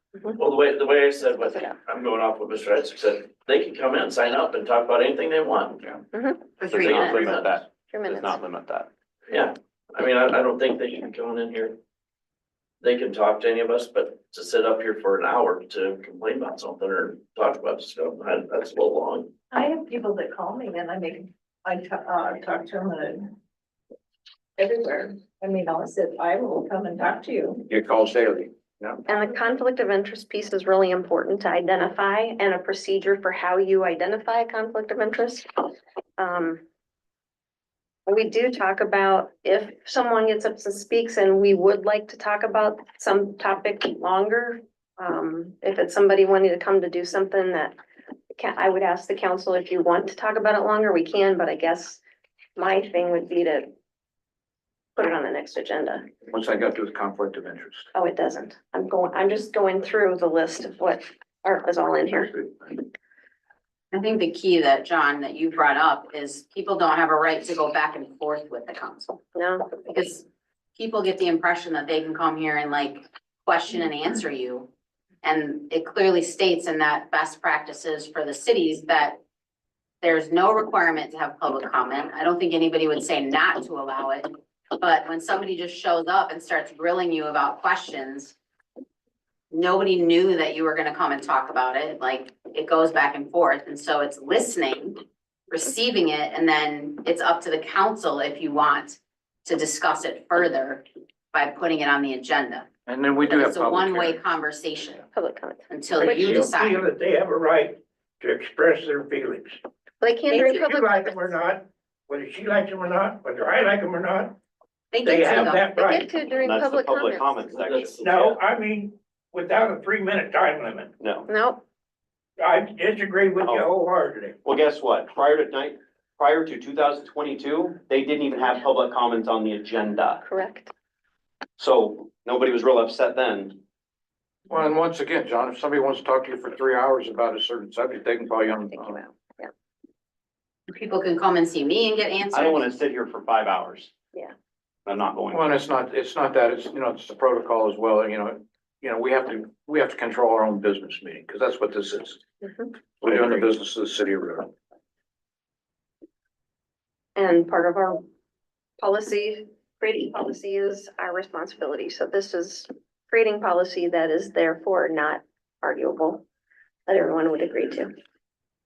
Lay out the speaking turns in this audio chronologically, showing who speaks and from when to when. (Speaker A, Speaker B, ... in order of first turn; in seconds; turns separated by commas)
Speaker A: 0.3-5.8, Speaker B: 1.5-1.8, Speaker B: 6.1-6.4, Speaker C: 6.6-7.5, Speaker D: 6.7-8.9, Speaker A: 6.8-7.5, Speaker B: 7.9-8.4, Speaker A: 9.3-11.8, Speaker A: 12.8-19.3, Speaker E: 19.5-23.3, Speaker E: 24.6-27.6, Speaker F: 27.7-29.0, Speaker B: 29.1-35.5, Speaker B: 36.2-36.6, Speaker B: 38.1-47.8, Speaker B: 48.3-52.0, Speaker B: 52.5-53.7, Speaker B: 55.0-56.0, Speaker F: 56.3-57.9, Speaker B: 57.9-62.3, Speaker C: 63.9-69.2, Speaker B: 69.3-69.8, Speaker C: 69.8-70.2, Speaker C: 70.8-74.7, Speaker C: 75.2-79.2, Speaker C: 80.0-88.3, Speaker C: 89.5-102.7, Speaker F: 102.8-104.2, Speaker C: 103.2-105.0, Speaker B: 105.1-106.4, Speaker C: 105.7-106.9, Speaker G: 106.0-109.6, Speaker B: 110.0-111.3, Speaker G: 110.3-114.3, Speaker C: 114.9-115.8, Speaker G: 115.0-116.1, Speaker B: 115.3-117.6, Speaker D: 116.4-118.0, Speaker A: 117.6-118.1, Speaker G: 117.9-120.9, Speaker D: 121.0-121.3, Speaker B: 121.3-121.6, Speaker G: 122.4-124.3, Speaker D: 124.4-130.2, Speaker B: 130.2-130.7, Speaker D: 131.6-133.6, Speaker F: 134.5-139.0, Speaker B: 138.7-139.5, Speaker C: 140.7-142.6, Speaker D: 142.3-143.9, Speaker D: 144.8-145.6, Speaker F: 145.3-152.2, Speaker B: 152.4-152.7, Speaker F: 153.0-154.5, Speaker D: 153.0-153.4, Speaker B: 157.2-158.1, Speaker B: 158.8-166.2, Speaker B: 166.9-167.9